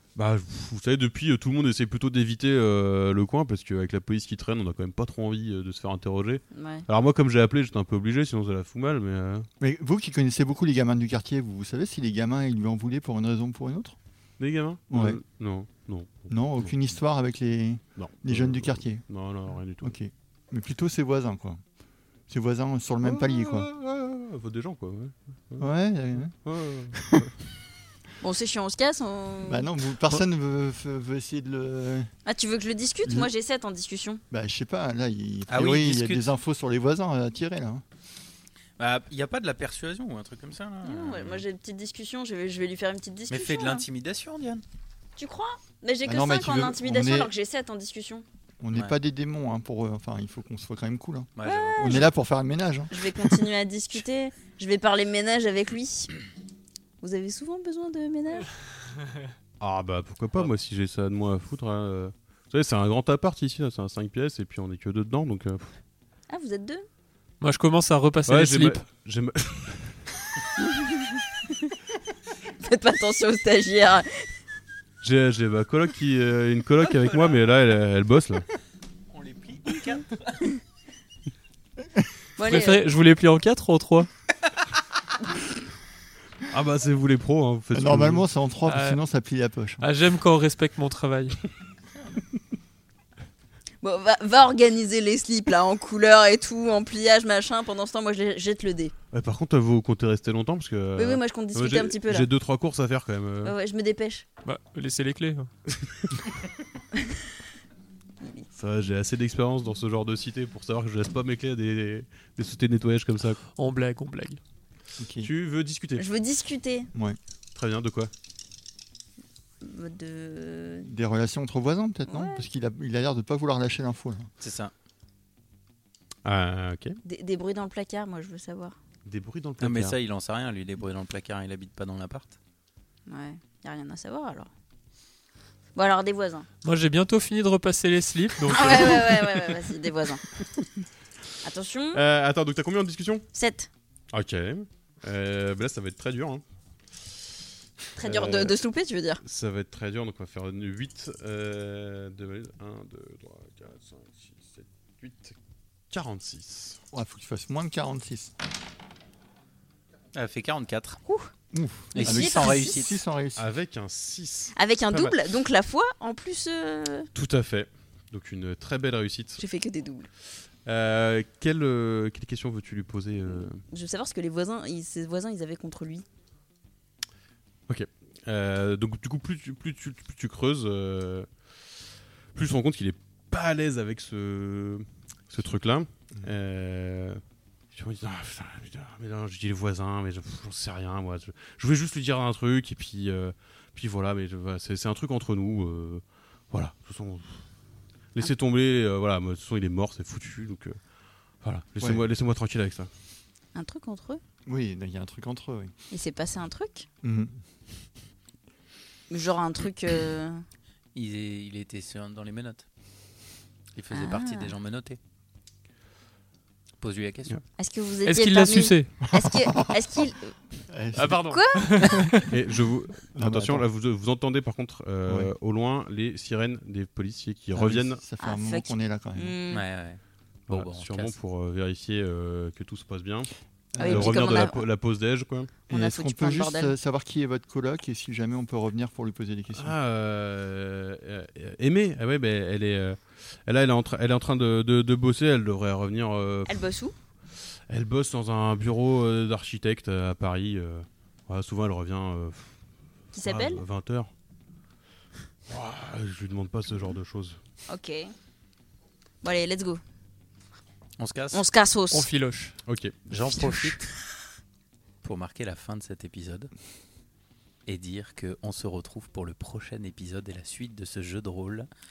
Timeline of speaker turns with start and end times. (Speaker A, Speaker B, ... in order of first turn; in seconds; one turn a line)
Speaker A: 0.2-9.5
Speaker B: 6.5-6.9
Speaker C: 9.6-14.0
Speaker A: 14.4-16.7
Speaker C: 14.9-15.2
Speaker C: 16.3-19.0
Speaker A: 18.0-19.9
Speaker C: 19.8-21.6
Speaker C: 22.3-23.7
Speaker A: 23.0-25.7
Speaker C: 25.6-26.3
Speaker A: 26.4-27.3
Speaker C: 26.9-27.2
Speaker B: 28.2-29.7
Speaker C: 29.4-32.1
Speaker B: 32.3-34.2
Speaker C: 33.0-33.3
Speaker C: 34.3-37.8
Speaker D: 35.5-36.2
Speaker D: 38.8-41.5
Speaker B: 40.8-43.8
Speaker D: 43.3-44.6
Speaker B: 45.2-48.2
Speaker C: 46.0-47.3
Speaker C: 48.6-53.0
Speaker D: 51.4-52.1
Speaker B: 51.4-52.1
Speaker B: 52.9-56.1
Speaker B: 57.0-58.5
Speaker A: 59.6-65.7
Speaker B: 66.3-66.8
Speaker E: 67.4-68.8
Speaker A: 68.3-70.0
Speaker B: 72.6-74.1
Speaker A: 75.0-78.5
Speaker D: 76.9-77.4
Speaker D: 79.1-80.5
Speaker B: 82.4-82.9
Speaker E: 82.5-84.1
Speaker A: 86.5-88.3
Speaker C: 87.7-89.8
Speaker E: 88.7-89.0
Speaker E: 89.8-91.4
Speaker B: 93.8-98.9
Speaker A: 99.1-103.5
Speaker B: 101.0-102.3
Speaker B: 103.4-104.3
Speaker E: 104.5-105.5
Speaker A: 105.7-106.1
Speaker A: 108.6-113.4
Speaker E: 113.6-114.4
Speaker C: 115.0-115.3
Speaker A: 115.2-116.0
Speaker B: 116.0-116.9
Speaker A: 117.5-118.1
Speaker B: 119.6-120.9
Speaker C: 120.8-124.3
Speaker B: 122.1-122.5
Speaker D: 124.4-124.7
Speaker A: 126.2-127.0
Speaker B: 127.0-128.8
Speaker A: 129.1-130.0
Speaker D: 129.6-132.4
Speaker B: 133.1-134.5
Speaker B: 135.8-136.5
Speaker E: 136.6-139.4
Speaker B: 138.5-140.2
Speaker B: 141.4-142.0
Speaker A: 141.9-143.3
Speaker B: 143.3-143.7
Speaker A: 144.1-146.4
Speaker B: 148.0-149.2
Speaker A: 148.0-148.6
Speaker A: 149.2-155.4
Speaker A: 155.9-156.8
Speaker C: 156.9-158.3
Speaker D: 160.1-161.0
Speaker B: 161.1-161.3
Speaker C: 161.5-163.5
Speaker B: 161.9-162.8
Speaker D: 161.9-163.0
Speaker A: 163.4-165.2
Speaker B: 164.6-167.1
Speaker A: 167.1-169.4
Speaker B: 169.4-170.1
Speaker A: 170.6-173.6
Speaker B: 173.4-176.1
Speaker A: 177.7-181.3
Speaker A: 182.3-187.2
Speaker A: 187.7-197.4
Speaker A: 198.1-200.8
Speaker A: 201.4-202.9
Speaker B: 203.6-204.2
Speaker C: 204.5-205.7
Speaker B: 205.9-206.9
Speaker C: 207.0-207.4
Speaker B: 209.1-210.4
Speaker D: 210.9-212.6
Speaker D: 213.8-215.0
Speaker B: 213.9-214.5
Speaker D: 216.8-217.4
Speaker B: 217.6-220.3
Speaker E: 218.1-219.0
Speaker C: 220.7-221.4
Speaker E: 221.0-222.3
Speaker B: 221.2-221.8
Speaker A: 222.3-228.0
Speaker C: 223.1-223.6
Speaker C: 227.5-229.3
Speaker B: 228.2-229.6
Speaker D: 229.5-231.1
Speaker A: 230.5-233.3
Speaker C: 233.7-234.2
Speaker B: 233.8-234.6
Speaker A: 233.8-235.5
Speaker B: 235.7-236.7
Speaker C: 235.7-239.8
Speaker A: 239.5-246.6
Speaker B: 246.5-246.9
Speaker A: 247.7-252.5
Speaker B: 253.1-253.6
Speaker A: 253.2-254.1
Speaker A: 255.5-257.4
Speaker B: 257.7-258.1
Speaker B: 259.2-259.8
Speaker D: 261.0-261.4
Speaker B: 261.3-262.1
Speaker E: 261.9-262.6
Speaker A: 262.7-263.1
Speaker D: 263.1-263.9
Speaker E: 263.3-263.8
Speaker D: 265.0-266.5
Speaker D: 267.7-271.7